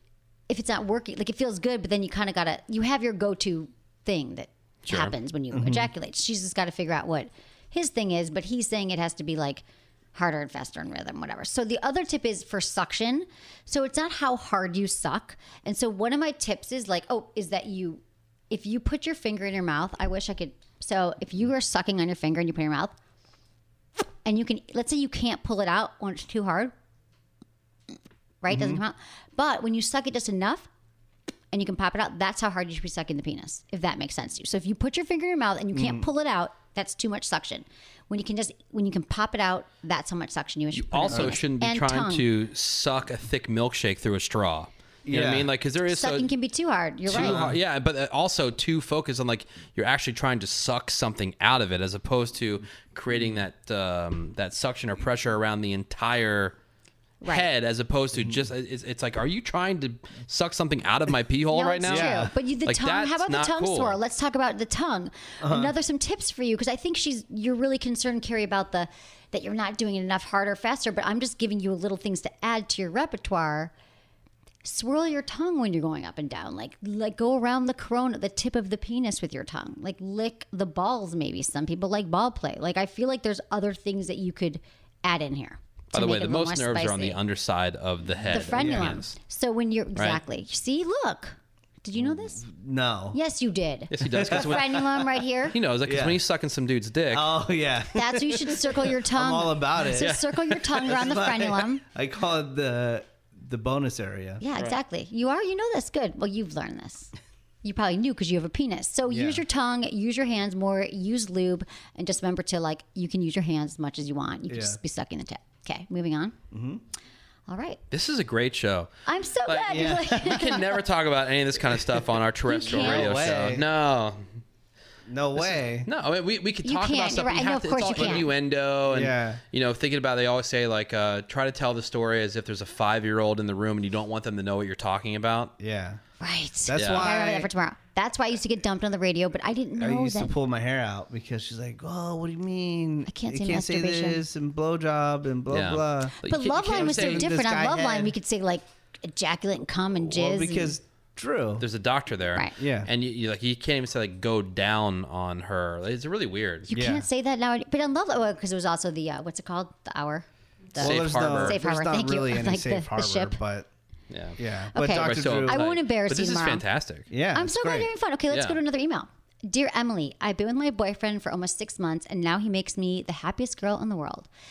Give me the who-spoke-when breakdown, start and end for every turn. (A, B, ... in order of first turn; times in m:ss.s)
0:00.5-0:09.6 A
0:04.9-0:05.2 B
0:05.5-0:05.9 C
0:10.1-0:23.0 A
0:24.2-0:26.7 A
0:28.4-0:30.7 A
0:28.5-0:28.8 C
0:31.5-0:42.2 A
0:35.7-0:36.1 C
0:40.7-0:46.3 B
0:45.1-0:45.5 C
0:45.9-0:47.4 A
0:47.1-0:56.6 B
0:47.1-0:47.6 C
0:57.2-0:57.5 A
0:57.2-1:04.0 B
1:01.5-1:13.7 A
1:01.9-1:02.3 C
1:05.4-1:05.7 C
1:14.6-1:27.2 A
1:25.9-1:29.2 B
1:28.3-1:32.5 A
1:28.5-1:29.0 C
1:32.0-1:33.2 C
1:33.1-1:35.6 A
1:33.9-1:37.3 B
1:34.2-1:34.7 C
1:35.8-1:36.2 C
1:37.1-1:40.2 C
1:38.0-1:41.8 A
1:40.0-1:41.0 B
1:40.8-1:44.4 C
1:44.4-1:47.1 A
1:47.6-1:56.4 A
1:49.1-1:49.4 C
1:54.5-1:54.8 C
1:56.5-1:56.8 C
1:57.5-1:57.8 A
1:57.9-1:58.9 B
1:59.1-2:00.8 A
1:59.5-2:04.3 B
1:59.7-2:00.4 C
2:02.5-2:03.4 A
2:02.6-2:03.6 C
2:05.1-2:05.9 C
2:05.4-2:15.5 B
2:06.6-2:08.3 A
2:08.0-2:08.3 C
2:08.9-2:09.4 C
2:15.6-2:16.0 C
2:16.2-2:20.3 A
2:16.7-2:17.5 C
2:16.8-2:17.1 B
2:19.8-2:28.2 C
2:23.1-2:24.2 A
2:25.5-2:27.3 B
2:26.3-2:30.8 A
2:30.1-2:31.7 C
2:31.6-2:36.7 B
2:32.6-2:32.9 C
2:36.7-2:43.4 A
2:36.7-2:37.1 C
2:40.8-2:41.6 B
2:40.8-2:43.7 C
2:44.1-2:47.1 B
2:44.4-2:45.6 C
2:44.8-2:46.6 A
2:47.1-2:47.9 C
2:47.3-2:54.3 A
2:48.3-2:48.6 B